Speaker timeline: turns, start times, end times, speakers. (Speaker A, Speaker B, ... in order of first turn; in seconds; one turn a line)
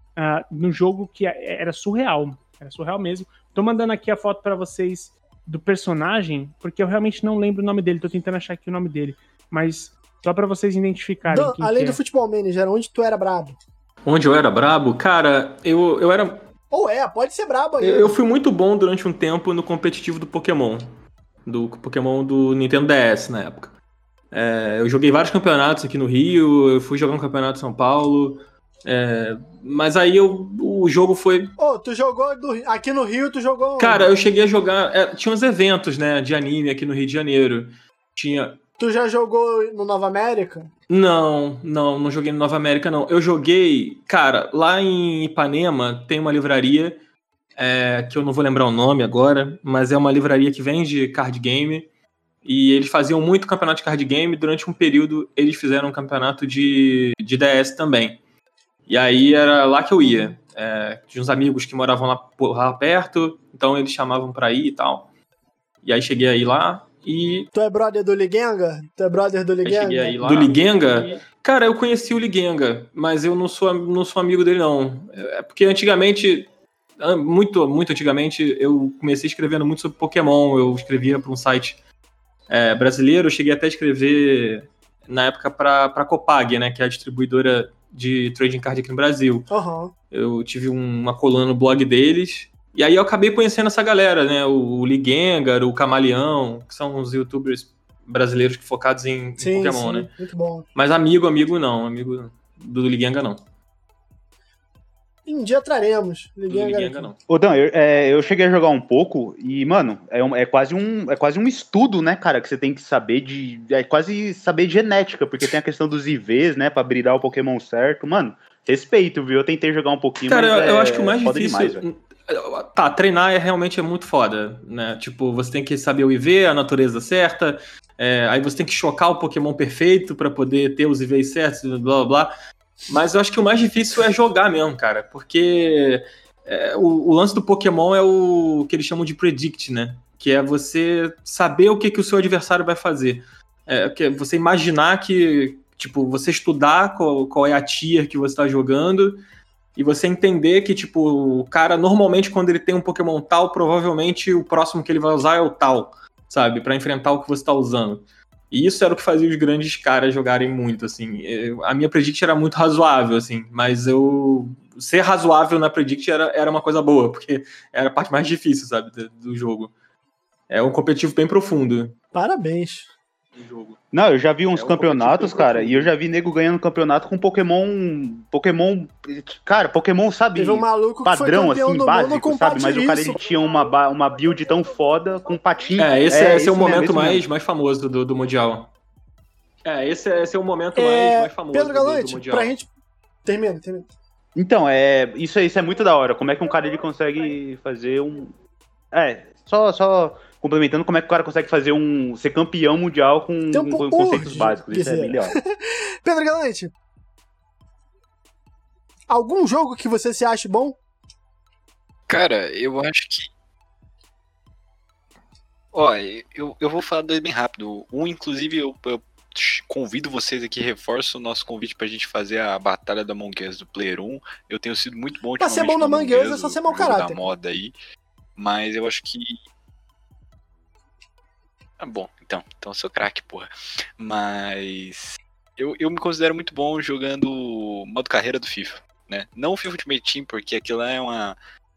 Speaker A: 0.1-12.0
Speaker B: 11.2-13.6
Speaker C: 14.0-16.4
Speaker B: 16.7-18.2
Speaker C: 17.8-20.9
Speaker C: 21.4-23.8
Speaker C: 24.3-31.5
Speaker B: 31.6-34.1
Speaker C: 33.8-38.6
Speaker B: 38.8-40.7
Speaker C: 40.9-47.0
Speaker C: 47.6-51.9
Speaker C: 52.4-58.2
Speaker C: 58.9-65.1
Speaker C: 65.8-67.5
Speaker B: 67.5-70.6
Speaker C: 69.6-76.5
Speaker C: 77.0-81.8
Speaker C: 82.5-89.5
Speaker B: 89.5-89.9
Speaker C: 90.1-100.1
Speaker B: 99.4-100.7
Speaker C: 100.7-103.4
Speaker B: 105.2-107.1
Speaker C: 106.5-107.2
Speaker D: 107.3-121.8
Speaker C: 120.3-132.3
Speaker C: 132.9-149.2
Speaker C: 149.8-169.7
Speaker C: 170.5-171.9
Speaker B: 172.1-172.9
Speaker C: 173.3-173.8
Speaker D: 173.9-186.5
Speaker C: 174.5-175.9
Speaker B: 180.3-183.2
Speaker C: 185.8-188.7
Speaker B: 186.4-187.2
Speaker C: 189.6-192.5
Speaker B: 190.7-192.7
Speaker B: 193.2-193.9
Speaker D: 194.3-198.3
Speaker D: 198.9-205.3
Speaker B: 203.5-206.7
Speaker C: 204.2-204.5
Speaker B: 209.1-210.8
Speaker E: 212.1-213.3
Speaker E: 215.7-227.7
Speaker B: 225.4-227.2
Speaker E: 228.3-229.3
Speaker E: 231.8-241.3